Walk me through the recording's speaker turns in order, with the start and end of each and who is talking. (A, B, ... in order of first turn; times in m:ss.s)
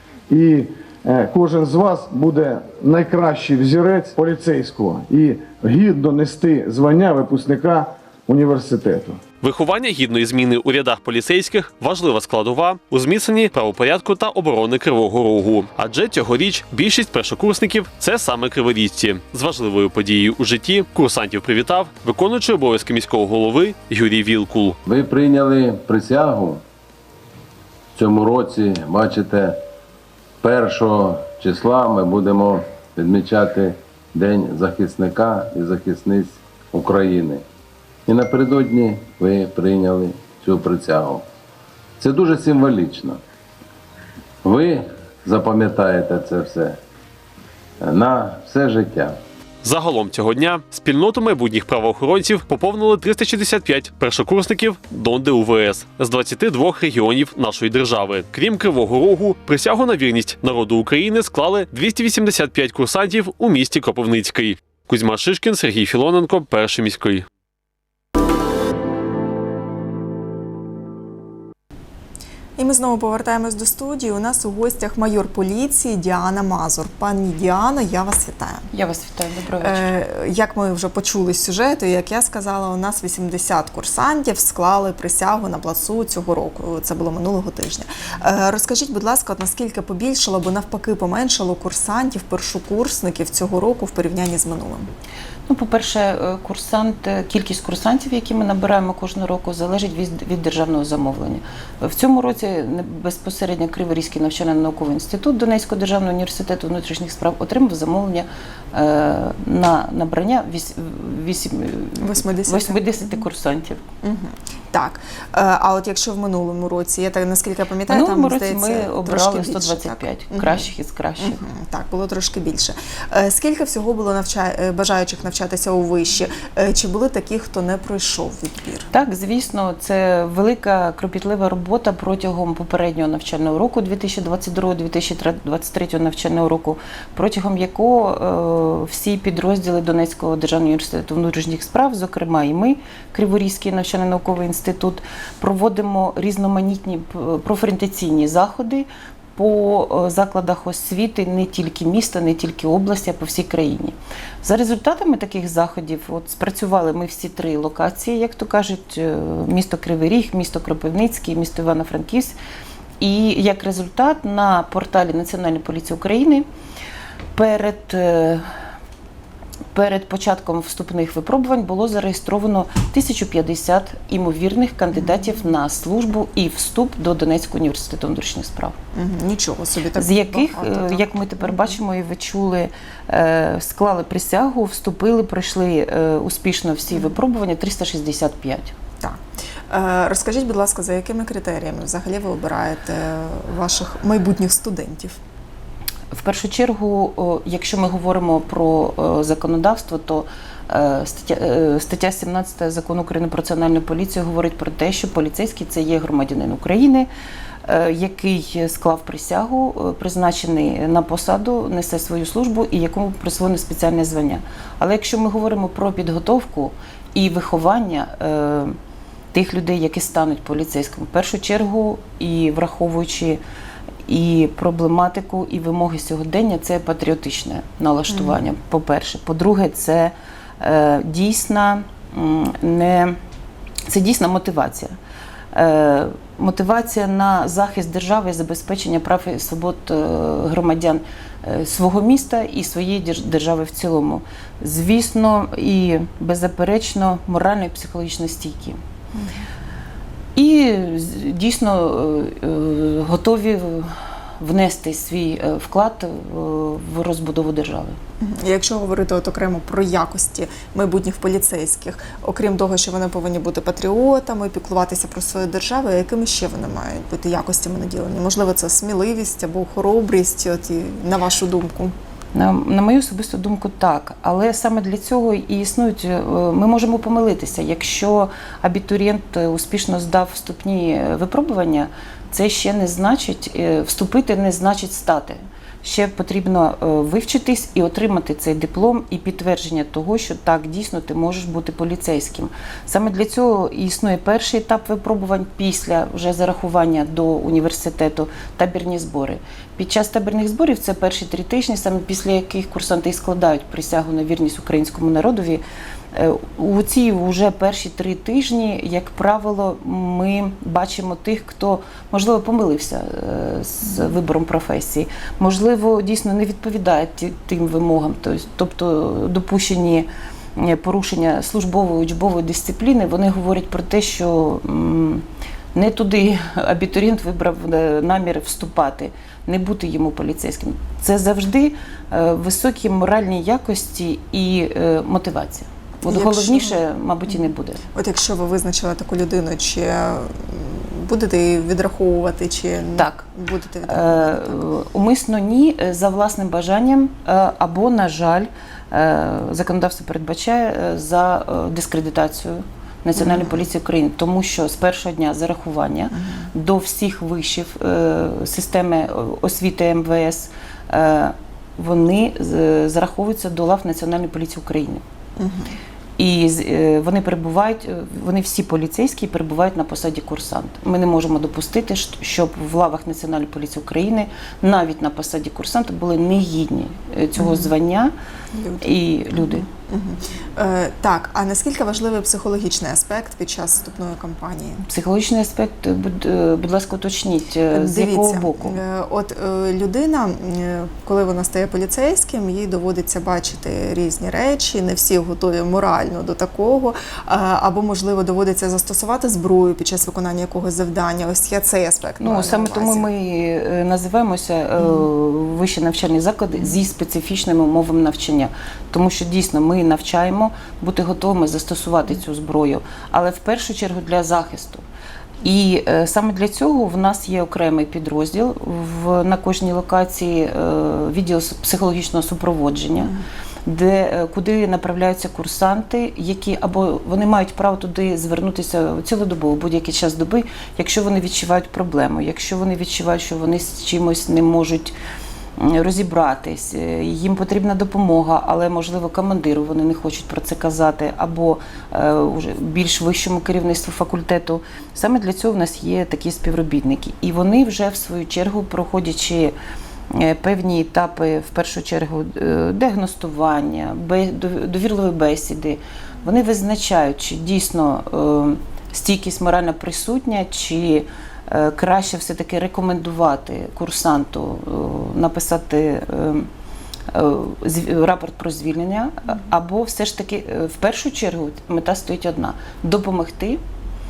0:00.3-0:09.2 A
0:09.4-0:24.8 B
0:24.8-0:26.6 C
0:27.9-0:29.6 C
0:30.4-0:37.4 C
0:38.0-0:41.2 C
0:42.0-0:43.2 C
0:44.4-0:46.8 C
0:47.8-0:49.2 C
0:49.6-1:07.2 B
1:12.6-1:18.6 D
1:18.7-1:19.9 E
1:19.6-1:34.9 D
1:35.5-1:53.8 E
1:52.0-1:53.3 D
1:54.0-2:08.9 D
1:57.9-2:01.4 E
2:08.9-2:42.4 E
2:43.0-2:46.4 E
2:47.3-2:48.4 E
2:49.7-2:58.7 E
2:58.9-3:01.7 D
3:00.0-3:08.7 E
3:09.7-3:15.2 D
3:16.1-3:27.1 E
3:27.6-3:38.7 E
3:39.3-3:43.4 E
3:44.0-3:53.2 E
3:48.1-3:48.4 D
3:53.9-3:54.9 E
3:55.5-4:08.8 E
4:09.1-4:09.4 D
4:10.4-4:18.0 E
4:18.2-4:31.9 D
4:32.3-5:05.6 E
5:06.1-5:25.2 E
5:25.7-5:37.8 E
5:36.0-5:36.8 D
5:37.9-5:44.6 D
5:42.9-5:43.2 E
5:43.9-6:05.0 E
5:53.2-5:53.5 D
6:05.4-6:05.7 D
6:06.2-6:18.1 E
6:17.4-6:17.7 D
6:18.5-6:24.8 D
6:18.8-6:19.6 E
6:24.9-6:28.8 E
6:27.7-6:43.1 D
6:42.2-6:54.8 E
6:44.8-6:45.1 D
6:55.4-7:03.1 E
7:03.6-7:14.9 E
7:15.6-7:29.5 E
7:30.1-7:46.5 E
7:47.1-7:53.6 E